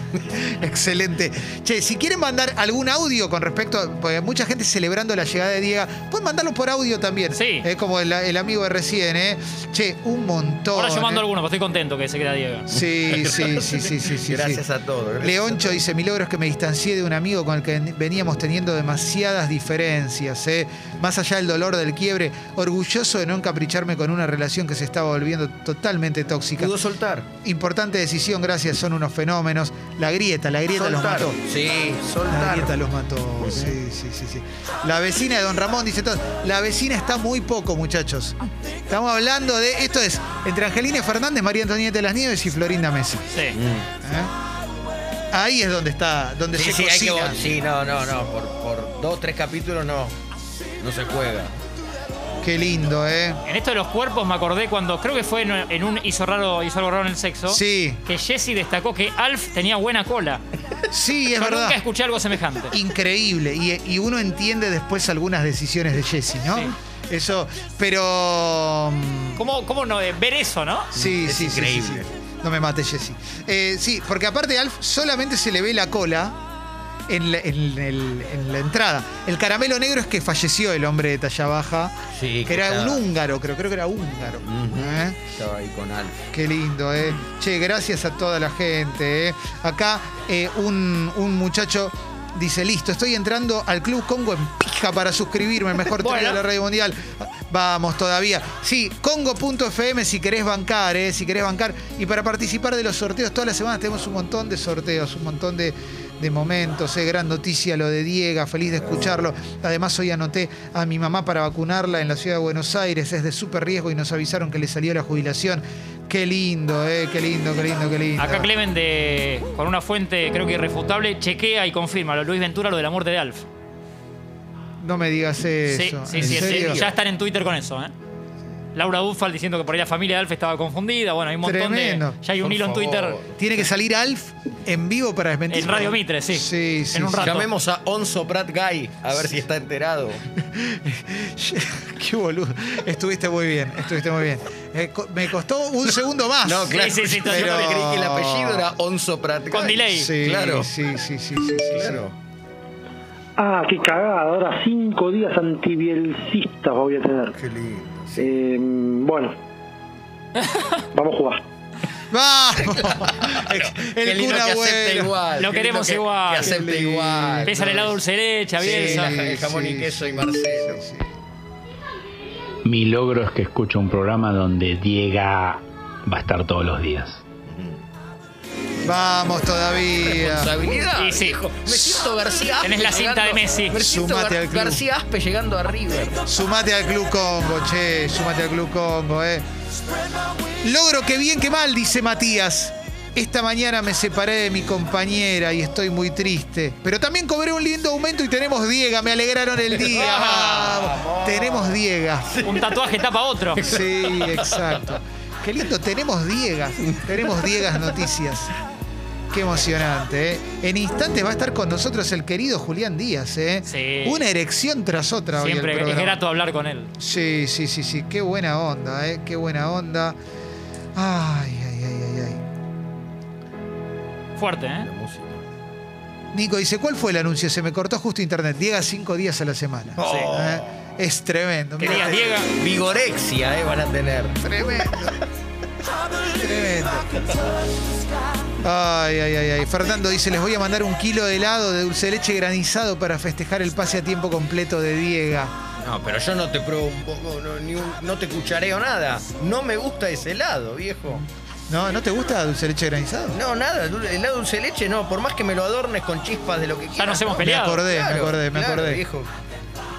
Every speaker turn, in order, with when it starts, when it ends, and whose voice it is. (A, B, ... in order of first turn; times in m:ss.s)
0:00.2-0:11.2 A
0:07.3-0:07.7 B
0:10.7-0:12.7 B
0:12.7-0:14.6 A
0:13.1-0:15.8 C
0:15.2-0:26.7 A
0:26.6-0:27.3 C
0:27.4-0:31.4 A
0:30.7-0:32.7 C
0:32.3-0:38.4 A
0:33.4-0:33.7 C
0:38.9-0:43.3 A
0:43.3-0:43.6 B
0:43.5-0:43.9 C
0:44.0-0:44.3 A
0:45.3-0:47.5 A
0:46.5-0:50.1 C
0:50.8-0:51.5 C
0:52.4-0:53.4 A
0:53.4-1:00.4 B
0:57.5-0:58.0 A
1:00.9-1:01.8 A
1:01.3-1:02.7 B
1:02.7-1:09.4 A
1:09.4-1:10.9 B
1:10.9-1:16.4 A
1:11.0-1:12.1 C
1:17.1-1:21.9 A
1:22.1-1:23.0 C
1:22.5-1:25.2 A
1:24.4-1:26.2 C
1:26.3-1:58.5 A
1:36.0-1:36.4 B
1:58.2-2:03.4 B
2:04.8-2:06.8 A
2:05.7-2:07.9 B
2:06.2-2:06.9 C
2:08.7-2:13.2 B
2:11.4-2:12.2 A
2:12.4-2:13.4 C
2:13.4-2:17.3 A
2:15.5-2:17.5 B
2:17.2-2:20.2 C
2:20.4-2:28.7 A
2:26.4-2:30.7 C
2:26.7-2:27.7 B
2:29.5-2:30.1 B
2:29.9-2:32.0 A
2:31.7-2:32.1 C
2:33.4-2:37.3 D
2:37.3-2:38.3 C
2:38.2-2:39.3 D
2:41.0-2:41.4 D
2:42.1-2:45.1 A
2:42.6-2:48.0 C
2:45.4-2:46.5 B
2:46.4-2:47.5 A
2:47.4-2:49.1 B
2:48.6-2:50.8 C
2:48.6-2:51.1 A
2:52.6-2:57.2 E
2:57.5-2:57.8 C
2:58.8-3:00.5 A
3:00.0-3:06.2 C
3:01.0-3:01.4 B
3:01.7-3:02.0 A
3:02.6-3:03.8 B
3:03.8-3:04.8 A
3:06.3-3:09.4 A
3:10.6-3:22.3 A
3:19.7-3:22.7 C
3:19.9-3:20.7 B
3:22.4-3:23.6 B
3:23.6-3:24.9 C
3:23.6-3:28.5 A
3:26.8-3:27.7 C
3:29.3-3:36.2 A
3:33.7-3:34.2 B
3:35.3-3:36.9 B
3:37.0-3:40.2 A
3:41.0-3:42.4 A
3:44.4-3:44.9 B
3:44.8-3:45.4 C
3:46.3-3:52.2 A
3:50.0-3:50.7 C
3:50.0-3:50.3 B
3:51.8-3:52.5 B
3:51.8-3:55.2 C
3:54.4-3:55.2 A
3:56.4-3:57.1 A
3:58.6-4:05.5 A
4:05.8-4:11.2 C
4:11.1-4:13.4 A
4:13.3-4:19.3 C
4:17.0-4:17.8 B
4:17.4-4:19.0 A